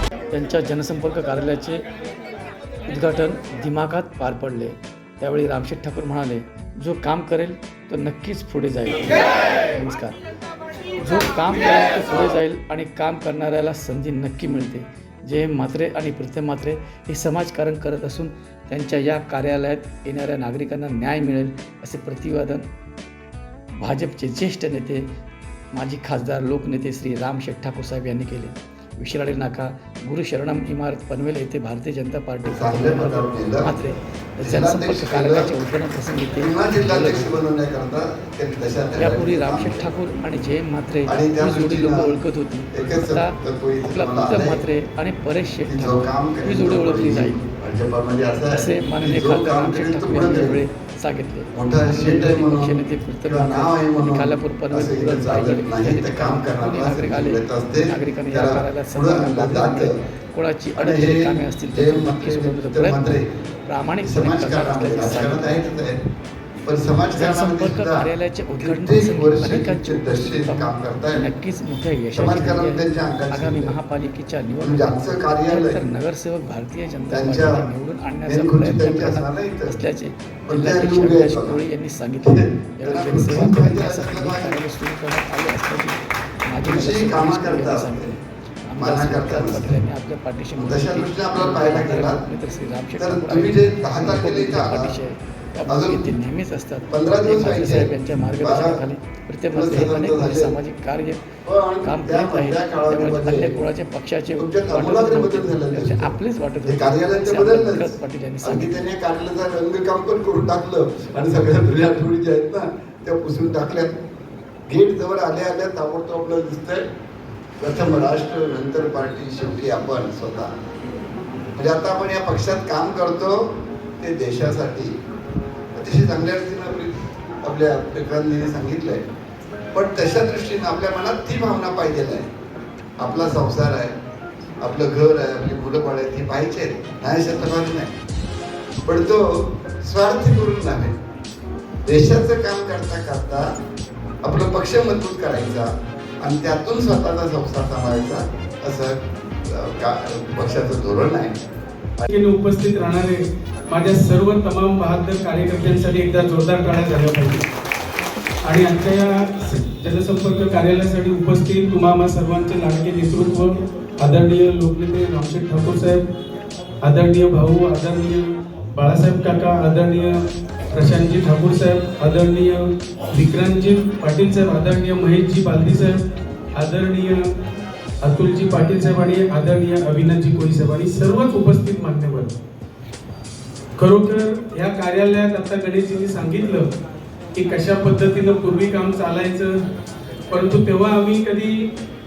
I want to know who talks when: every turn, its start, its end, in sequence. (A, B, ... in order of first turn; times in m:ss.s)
0:00.3-0:01.8 A
0:02.9-0:10.2 A
0:11.0-0:22.7 A
0:23.8-0:25.1 A
0:25.7-0:37.4 A
0:32.5-0:33.7 B
0:34.4-0:35.5 B
0:36.4-0:39.8 B
0:39.0-0:47.4 A
0:41.1-0:42.2 B
0:42.7-0:44.6 B
0:45.7-0:50.6 B
0:48.5-1:05.6 A
0:51.6-1:00.0 B
1:00.8-1:03.3 B
1:04.0-1:06.0 B
1:06.6-1:11.3 B
1:07.1-1:41.3 A
1:12.2-1:13.8 B
1:14.6-1:15.8 B
1:17.1-1:17.7 B
1:18.3-1:19.8 B
1:20.5-1:21.6 B
1:22.2-1:24.6 B
1:26.6-1:28.2 B
1:28.8-1:29.8 B
1:30.6-1:32.2 B
1:33.0-1:35.0 B
1:35.7-1:36.1 B
1:36.9-1:38.8 B
1:39.5-1:40.6 B
1:41.4-1:43.6 B
1:41.8-1:48.8 A
1:44.4-1:54.0 B
1:54.7-1:56.8 B
1:57.6-2:00.5 B
2:01.6-2:04.9 B
2:05.8-2:09.0 B
2:09.7-2:12.3 B
2:13.0-2:14.0 B
2:14.6-2:17.9 B
2:18.8-2:21.0 B
2:21.8-2:23.5 B
2:24.2-2:25.7 B
2:26.2-2:31.4 B
2:32.1-2:37.5 C
2:38.5-2:46.0 C
2:46.8-2:56.0 C
2:56.6-2:57.3 C
2:58.0-3:02.4 C
3:03.8-3:06.7 C
3:07.4-3:09.6 C
3:10.3-3:11.7 C